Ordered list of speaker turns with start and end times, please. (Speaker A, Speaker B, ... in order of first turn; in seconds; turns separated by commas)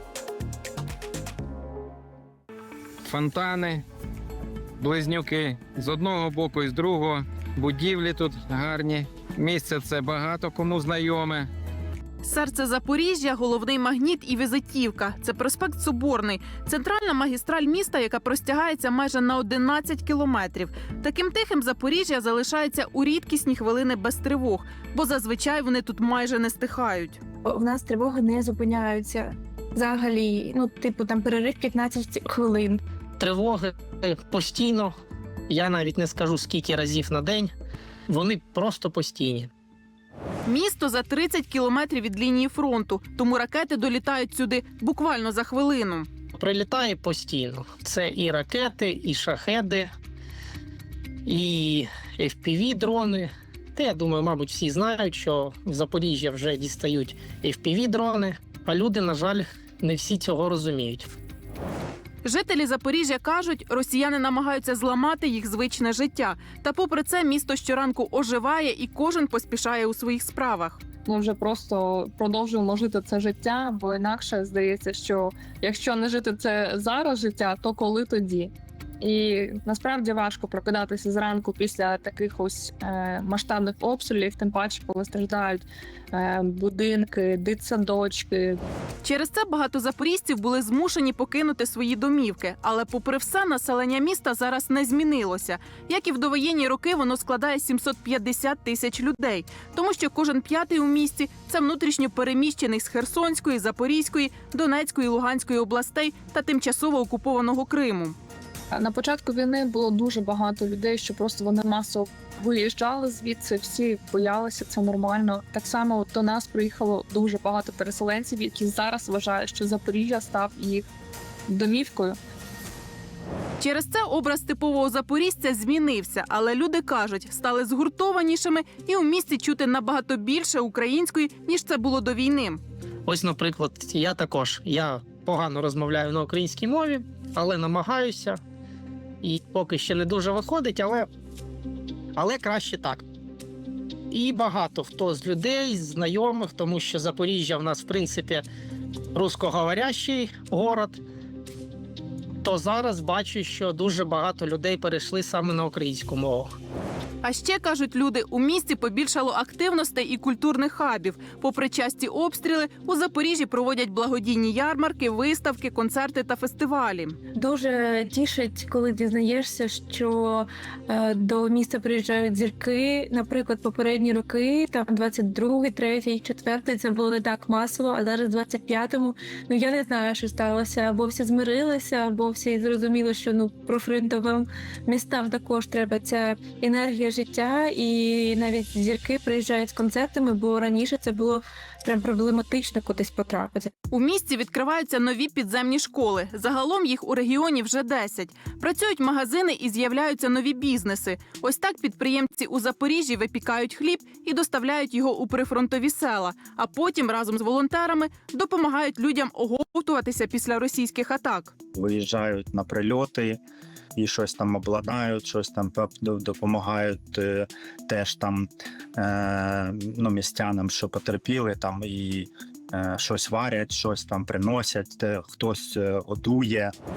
Speaker A: 3.0-3.8, Speaker A: 4.8-11.5, Speaker B: 12.2-27.2, Speaker C: 27.4-32.8, Speaker D: 33.2-35.0, Speaker D: 35.5-37.5, Speaker D: 38.1-39.5, Speaker B: 40.5-46.1, Speaker D: 46.4-49.9, Speaker D: 51.3-61.1, Speaker B: 62.2-70.8, Speaker E: 71.0-88.6, Speaker B: 89.0-108.2, Speaker E: 108.7-120.9, Speaker E: 121.5-122.2, Speaker B: 123.6-132.6, Speaker D: 133.1-138.4, Speaker D: 139.2-141.1, Speaker D: 142.2-143.1, Speaker D: 144.1-148.5, Speaker D: 149.1-151.0, Speaker D: 152.4-156.5, Speaker B: 157.2-167.2, Speaker C: 167.3-193.7, Speaker B: 193.9-211.5, Speaker F: 211.7-213.4, Speaker F: 214.0-226.7